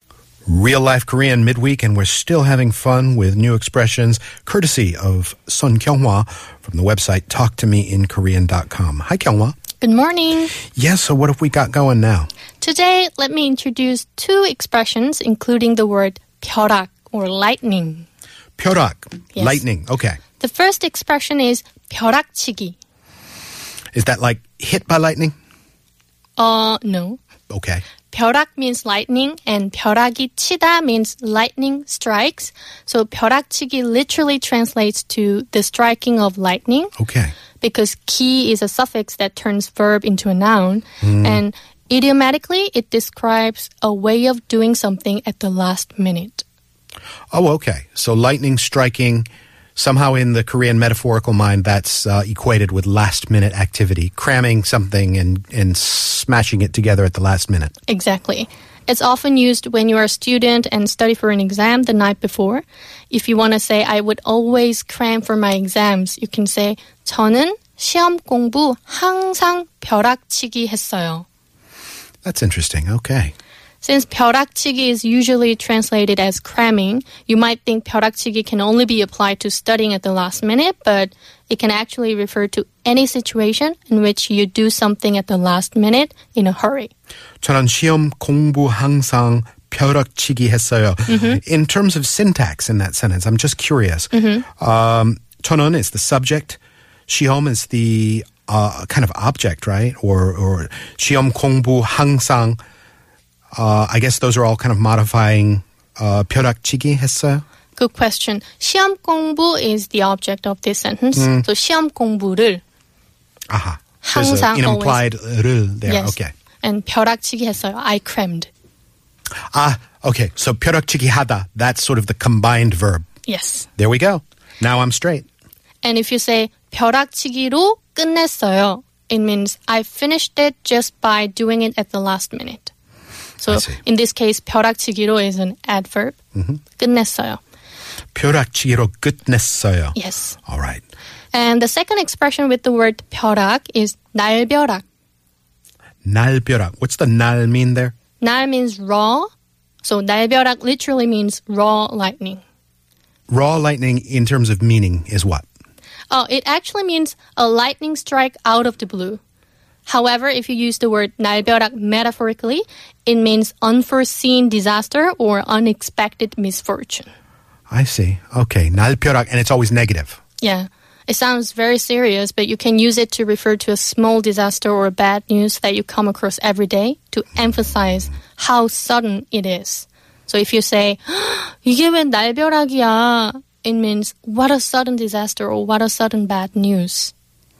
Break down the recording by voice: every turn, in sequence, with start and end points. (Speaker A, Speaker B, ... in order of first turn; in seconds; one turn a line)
Speaker A: 0.5-9.6
Speaker B: 9.8-10.5
Speaker A: 10.7-12.3
Speaker B: 12.6-18.1
Speaker A: 18.6-20.2
Speaker B: 19.3-19.6
Speaker B: 20.4-22.8
Speaker A: 23.9-25.3
Speaker B: 26.4-27.2
Speaker A: 27.5-27.8
Speaker B: 28.1-36.9
Speaker A: 37.0-37.3
Speaker B: 37.6-46.4
Speaker A: 41.0-41.4
Speaker A: 47.3-57.7
Speaker B: 57.9-71.2
Speaker A: 72.2-73.3
Speaker B: 73.8-86.9
Speaker A: 87.4-102.6
Speaker B: 91.1-91.4
Speaker B: 94.1-94.4
Speaker A: 103.5-107.4
Speaker B: 107.8-112.6
Speaker A: 111.2-111.4
Speaker A: 113.5-116.3
Speaker B: 114.0-115.0
Speaker B: 115.9-118.5
Speaker A: 119.5-123.0
Speaker B: 123.2-123.7
Speaker A: 123.8-125.2
Speaker B: 125.8-132.7
Speaker B: 133.4-136.2
Speaker A: 133.5-133.8
Speaker B: 136.7-137.4
Speaker A: 138.1-139.9
Speaker B: 139.9-140.4
Speaker A: 140.5-140.8
Speaker B: 141.3-144.8
Speaker A: 146.0-147.9
Speaker B: 148.2-149.3
Speaker B: 149.8-152.4
Speaker A: 153.3-155.4
Speaker B: 156.1-159.2
Speaker B: 159.8-167.1
Speaker A: 167.7-170.2
Speaker B: 170.4-187.1